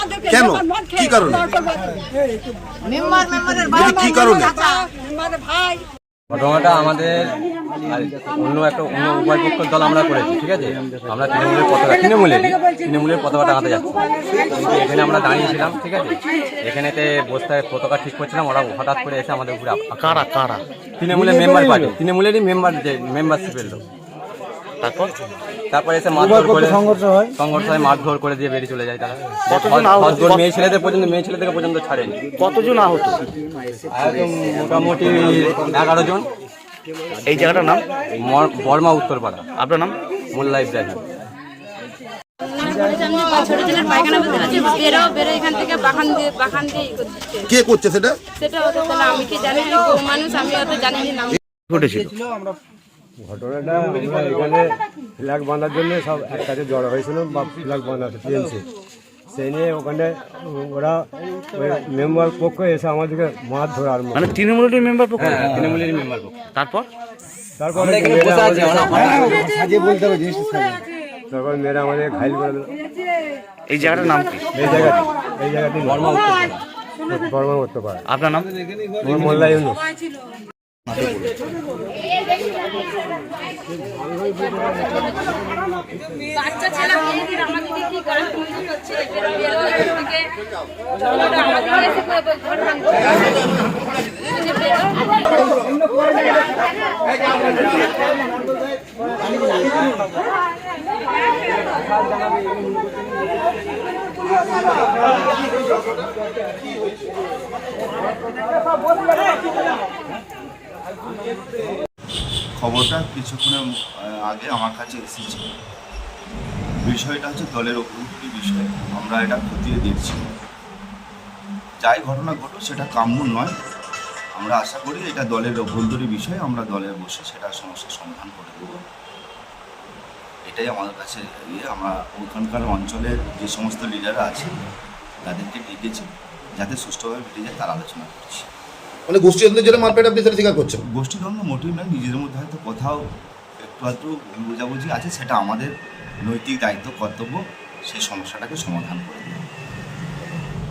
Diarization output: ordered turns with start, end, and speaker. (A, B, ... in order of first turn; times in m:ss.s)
0:00.3-0:01.5 A
0:02.8-0:04.9 B
0:03.7-0:04.5 A
0:06.3-0:20.1 C
0:19.9-0:20.6 D
0:21.0-0:23.8 C
0:21.1-0:21.9 E
0:24.8-0:25.1 D
0:25.7-0:32.2 C
0:26.2-0:27.3 E
0:29.5-0:30.4 D
0:32.4-0:33.2 D
0:33.9-0:36.3 C
0:37.2-0:37.8 D
0:38.2-0:39.4 C
0:39.6-0:40.0 D
0:40.3-0:41.0 C
0:42.6-0:47.3 F
0:47.5-0:48.2 A
0:48.4-0:51.3 F
0:51.7-0:52.1 D
0:53.2-0:58.6 E
0:59.3-1:04.3 E
1:04.1-1:05.7 D
1:05.2-1:06.4 C
1:06.5-1:06.9 D
1:07.6-1:09.1 E
1:07.7-1:09.6 C
1:11.3-1:12.7 E
1:13.7-1:14.4 D
1:14.5-1:16.1 E
1:14.6-1:15.0 C
1:15.8-1:16.6 C
1:17.1-1:18.0 E
1:18.1-1:18.5 D
1:19.0-1:19.8 E
1:19.1-1:19.5 C
1:31.6-1:32.0 F
1:52.6-1:53.6 G
1:54.3-1:55.5 G
1:56.8-2:00.3 G
2:01.8-2:03.6 G
2:04.4-2:08.8 G
2:10.4-2:14.5 G
2:15.2-2:18.5 G
2:19.1-2:20.8 A
2:20.9-2:23.0 G
2:23.7-2:25.7 G
2:26.3-2:29.4 G